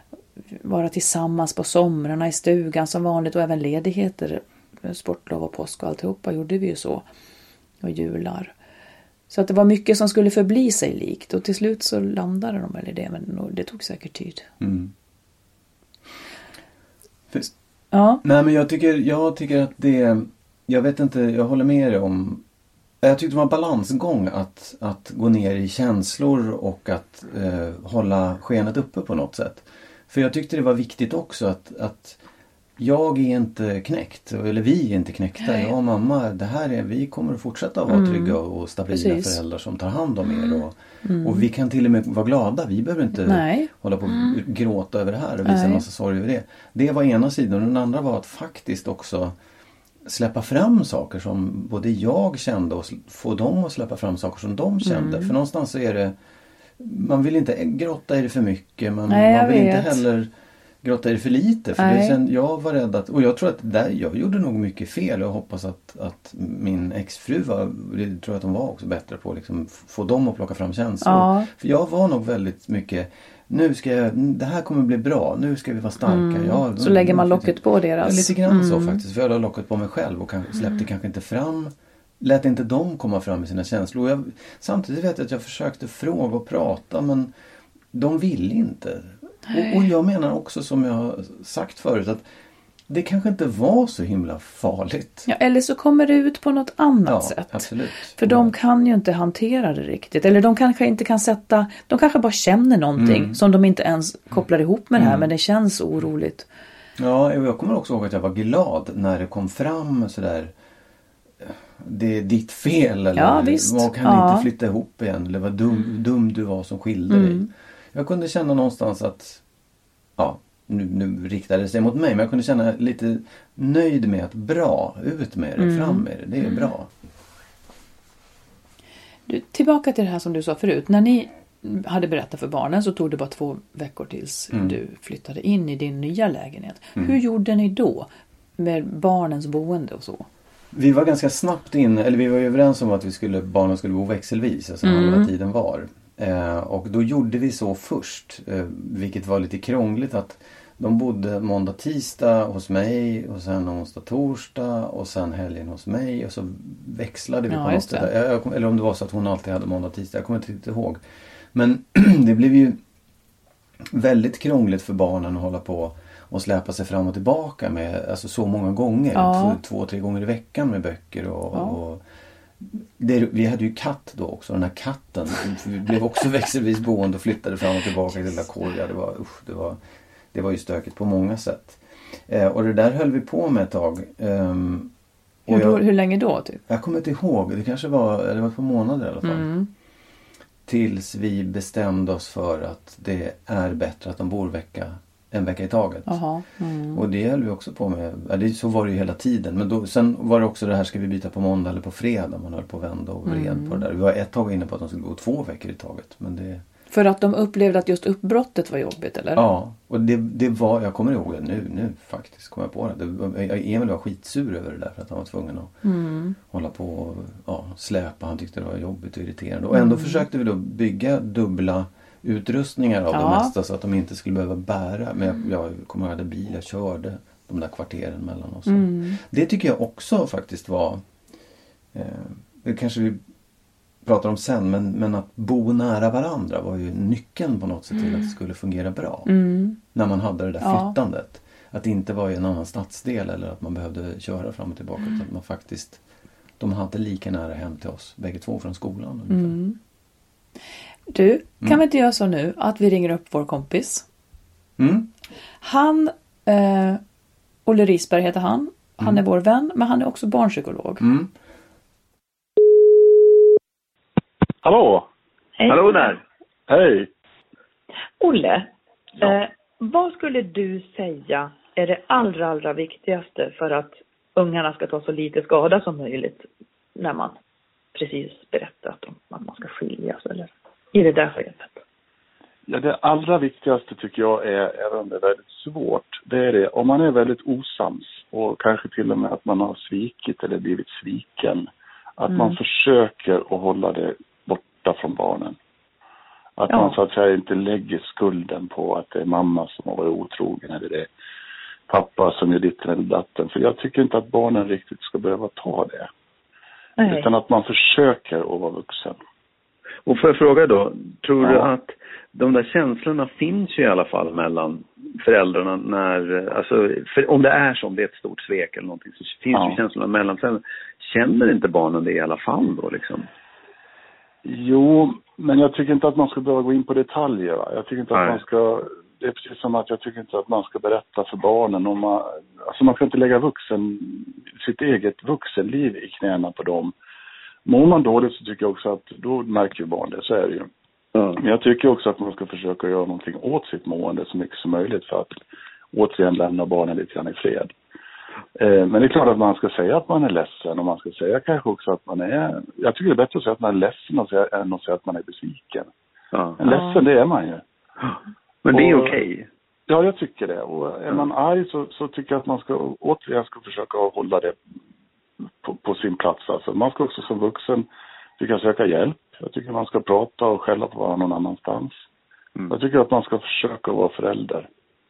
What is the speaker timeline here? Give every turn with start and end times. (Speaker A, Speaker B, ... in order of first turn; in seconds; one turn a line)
Speaker A: 0.6-7.0
Speaker A: 7.8-8.5
Speaker A: 9.3-14.5
Speaker B: 14.6-14.9
Speaker A: 17.9-18.2
Speaker B: 18.2-22.4
Speaker B: 23.0-32.2
Speaker B: 32.8-49.4
Speaker A: 37.9-39.4
Speaker A: 40.3-41.5
Speaker A: 43.2-44.4
Speaker A: 45.4-45.8
Speaker B: 50.0-56.1
Speaker A: 54.8-55.3
Speaker B: 56.8-60.3
Speaker A: 59.1-60.0
Speaker B: 60.8-87.3
Speaker A: 61.8-62.2
Speaker A: 71.0-71.5
Speaker A: 76.0-79.0
Speaker B: 87.9-92.2
Speaker A: 89.5-89.8
Speaker B: 92.9-95.3
Speaker A: 95.2-106.5
Speaker B: 97.0-98.5
Speaker B: 103.0-103.4
Speaker B: 105.0-105.3
Speaker B: 107.0-110.5
Speaker B: 111.4-119.4
Speaker A: 113.2-114.5
Speaker A: 117.1-117.5
Speaker B: 120.2-126.9
Speaker A: 125.6-126.7
Speaker A: 129.3-140.3
Speaker B: 140.7-161.0
Speaker A: 144.8-145.3
Speaker A: 157.5-158.1
Speaker B: 161.5-162.8
Speaker B: 163.8-172.0
Speaker A: 169.1-169.6
Speaker A: 171.5-171.8
Speaker B: 172.6-179.8
Speaker B: 180.3-184.9
Speaker B: 185.5-185.8
Speaker A: 185.5-186.6
Speaker B: 186.7-189.5
Speaker A: 189.2-189.7
Speaker B: 190.7-196.2
Speaker A: 196.1-197.0
Speaker B: 196.9-206.6
Speaker A: 203.2-203.9
Speaker A: 206.9-209.4
Speaker B: 209.3-215.8
Speaker A: 215.8-216.3
Speaker B: 216.4-231.0
Speaker A: 219.7-220.2
Speaker A: 223.1-223.5
Speaker A: 228.7-229.2
Speaker B: 231.9-233.2
Speaker B: 234.0-246.0
Speaker A: 239.2-239.8
Speaker A: 240.6-240.9
Speaker B: 246.6-249.6
Speaker A: 249.3-249.8
Speaker A: 251.1-254.1
Speaker B: 254.8-255.1
Speaker A: 255.6-257.0
Speaker A: 257.6-261.0
Speaker B: 261.0-261.3
Speaker C: 264.6-265.1
Speaker D: 265.6-265.9
Speaker E: 265.7-266.2
Speaker C: 266.7-267.1
Speaker D: 268.2-277.4
Speaker D: 277.9-281.8
Speaker C: 282.7-295.6
Speaker D: 292.3-292.6
Speaker C: 296.6-301.1
Speaker D: 296.7-297.0
Speaker C: 301.9-306.1
Speaker D: 307.0-307.3
Speaker C: 307.0-309.2
Speaker E: 310.1-323.3
Speaker C: 311.4-311.7
Speaker C: 319.5-319.8
Speaker C: 324.4-336.9
Speaker E: 328.1-328.4
Speaker C: 337.6-340.7
Speaker E: 341.1-341.4
Speaker C: 341.4-345.4
Speaker C: 345.9-347.7
Speaker C: 348.6-355.9
Speaker E: 356.3-356.6
Speaker C: 356.6-357.6
Speaker D: 356.6-357.0
Speaker E: 358.0-359.5
Speaker C: 358.7-359.2
Speaker C: 359.9-364.6
Speaker C: 365.6-372.0
Speaker C: 372.7-374.7